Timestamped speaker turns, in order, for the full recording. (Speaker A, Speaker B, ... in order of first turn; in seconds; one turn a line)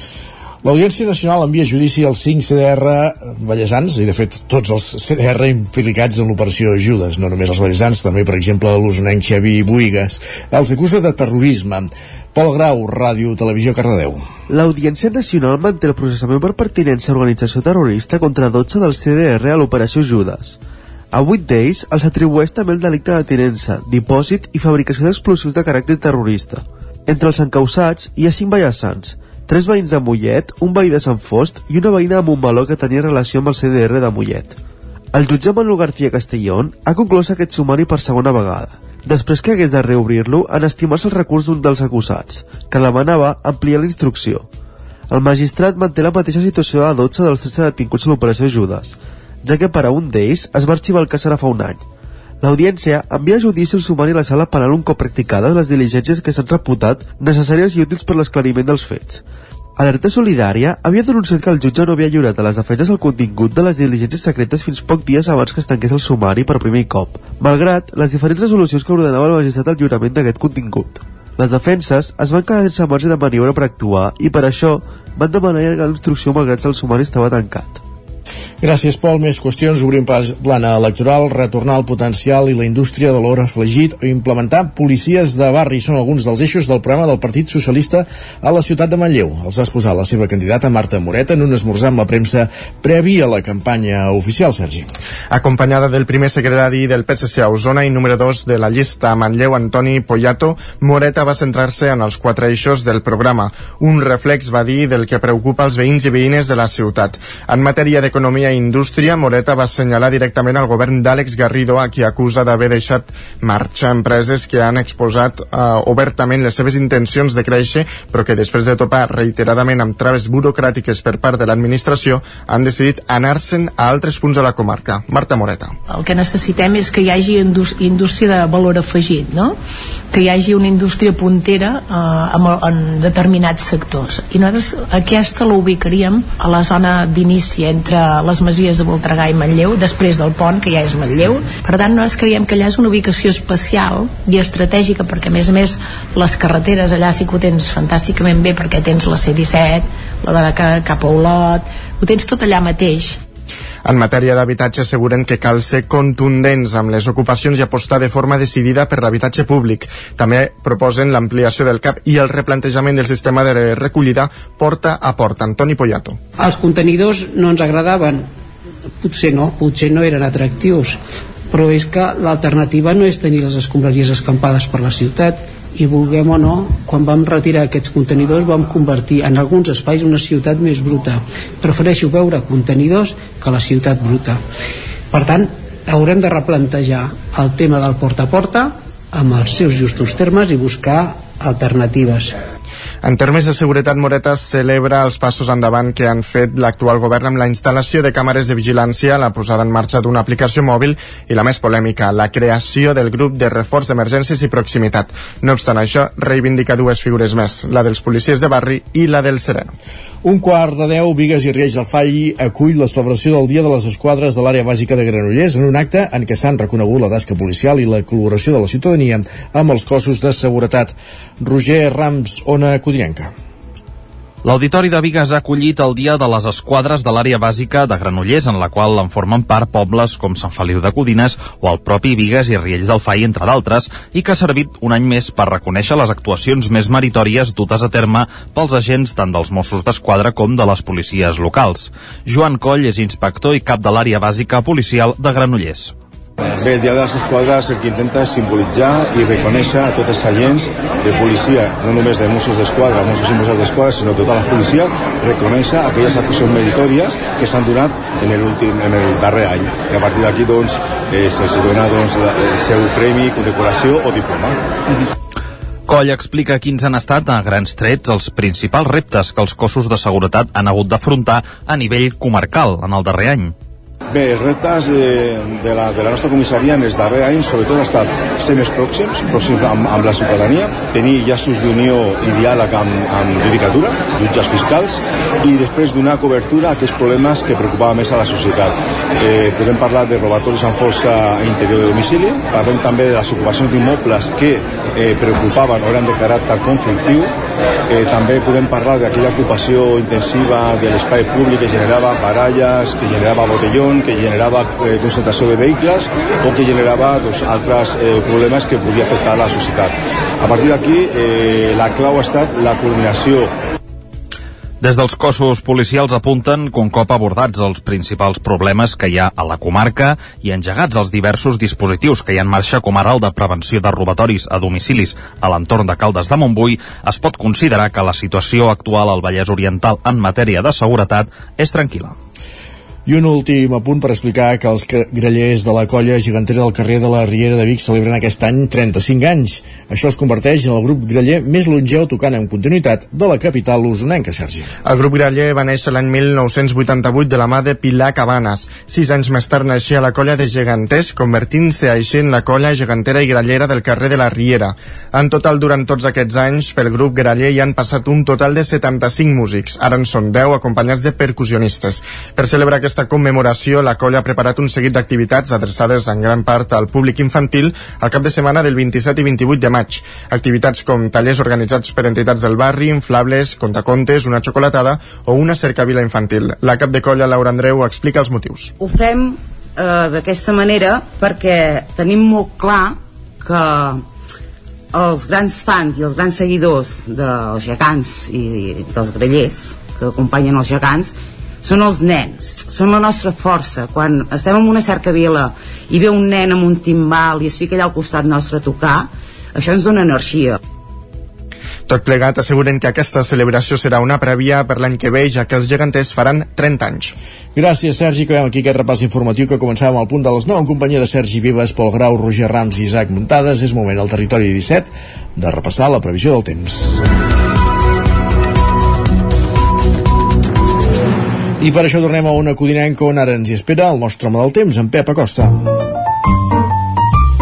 Speaker A: 0.6-14.2
Speaker B: 14.5-20.6
Speaker B: 21.1-34.6
Speaker B: 35.1-44.5
Speaker B: 45.1-51.8
Speaker B: 52.4-59.2
Speaker B: 59.8-77.8
Speaker A: 78.6-94.9
Speaker C: 95.3-125.8
Speaker D: 125.9-129.6
Speaker D: 130.1-153.2
Speaker C: 153.8-166.2
Speaker E: 166.4-168.3
Speaker E: 169.0-171.0
Speaker E: 171.5-184.4
Speaker E: 185.1-192.4
Speaker C: 193.0-209.7
Speaker A: 210.2-223.3
Speaker F: 224.4-245.9
Speaker G: 246.6-264.6
Speaker F: 265.9-273.5
Speaker G: 274.1-297.3
Speaker G: 297.9-313.5
Speaker F: 314.8-332.1
Speaker A: 333.1-344.7
Speaker C: 344.8-378.7
Speaker H: 378.8-384.0
Speaker H: 384.9-400.6
Speaker C: 401.9-407.1
Speaker A: 407.5-417.0
Speaker A: 421.6-425.6